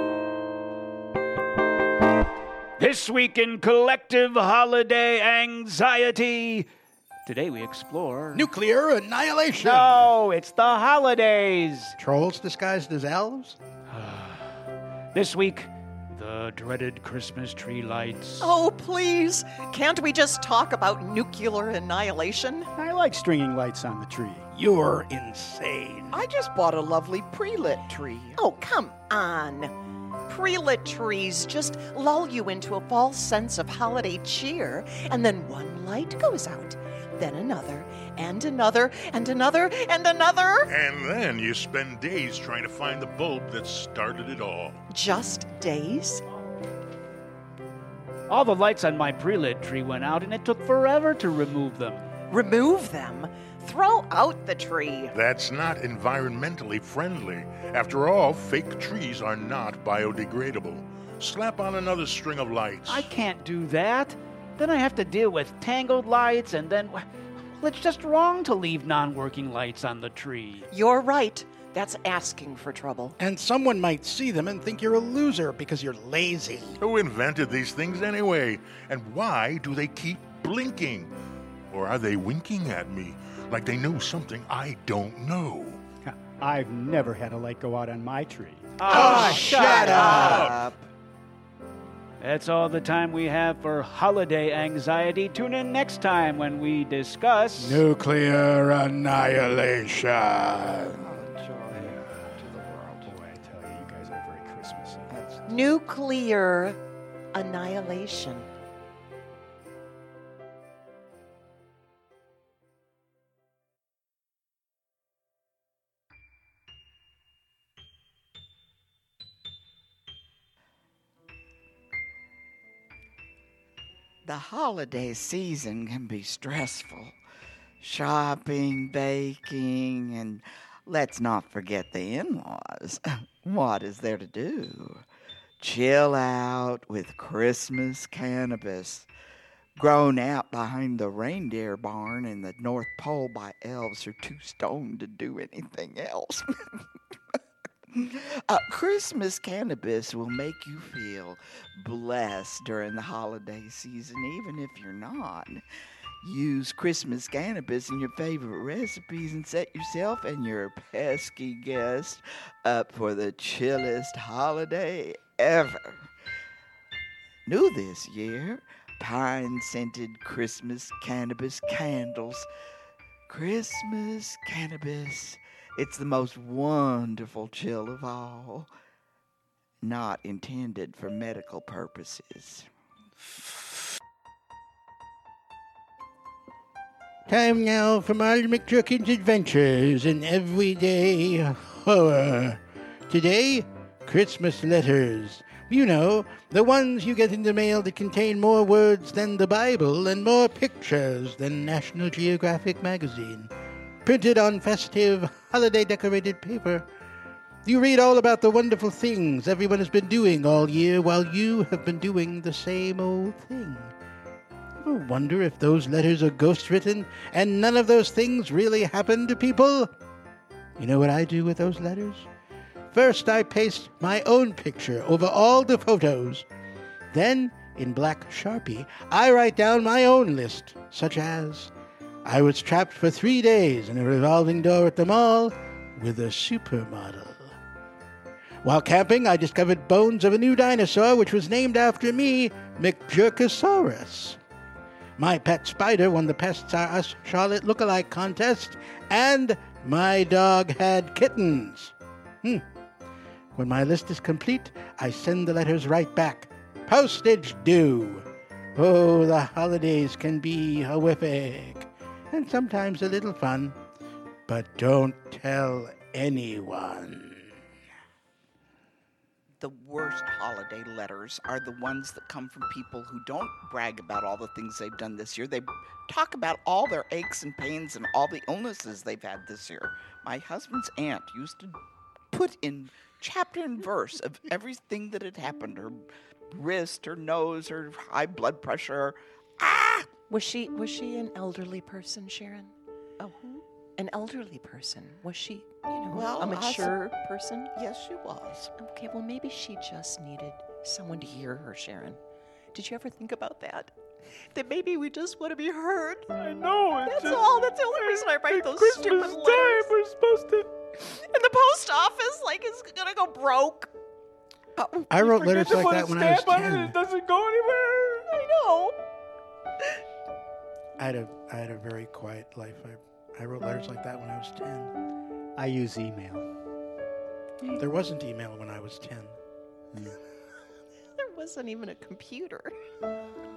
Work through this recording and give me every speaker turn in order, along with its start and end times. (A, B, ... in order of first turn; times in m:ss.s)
0:02.8-0:06.7 A
0:07.2-0:08.5 A
0:08.3-0:10.1 B
0:09.6-0:11.9 A
0:12.0-0:13.6 B
0:13.9-0:14.6 A
0:15.1-0:18.5 A
0:18.4-0:22.7 C
0:22.8-0:24.5 D
0:24.5-0:26.2 B
0:26.1-0:28.4 E
0:28.4-0:29.7 C
0:30.3-0:40.7 C
0:40.7-0:44.8 F
0:44.9-0:46.2 C
0:48.3-0:52.1 A
0:52.3-0:55.1 C
0:55.1-1:03.1 F
1:02.9-1:10.7 A
1:10.7-1:13.1 C
1:13.2-1:16.8 B
1:16.8-1:21.1 F
1:21.7-1:25.8 F
1:26.0-1:29.4 D
1:28.8-1:30.5 A
1:28.9-1:30.9 E
1:28.9-1:30.5 B
1:29.9-1:30.5 F
1:32.2-1:37.8 A
1:37.6-1:41.0 B
1:40.9-1:43.1 E
1:43.0-1:45.2 D
1:45.1-1:45.4 E
1:45.5-1:46.8 C
1:47.3-1:48.5 C
2:04.2-2:07.2 E
2:07.8-2:15.0 E
2:15.6-2:19.1 E
2:19.8-2:26.8 E
2:27.9-2:35.6 E
2:36.2-2:46.1 E
2:47.4-2:52.5 E
2:53.3-2:58.7 E
2:59.8-3:02.7 E
3:07.2-3:23.5 B
3:24.0-3:26.9 B
3:27.6-3:33.9 B
3:34.8-3:39.9 B
3:40.8-3:42.3 B
3:42.9-3:46.4 B
3:47.1-3:51.7 B
3:52.2-3:57.6 B
3:58.6-4:04.4 B
4:05.2-4:12.6 B
4:13.5-4:23.8 B
4:24.5-4:27.5 B
4:29.6-4:41.8 E
4:42.3-4:50.1 E
4:50.3-4:57.7 C
4:56.1-4:57.0 E
4:57.7-4:58.7 E
4:58.8-5:02.2 C
5:02.7-5:06.3 C
5:06.3-5:10.7 A
5:07.0-5:09.9 C
5:11.0-5:13.9 C
5:15.1-5:17.0 B
5:15.1-5:18.3 A
5:18.3-5:19.0 C
5:21.0-5:24.9 B
5:25.6-5:26.4 D
5:25.6-5:26.4 A
5:27.6-5:29.4 B
5:31.2-5:32.7 C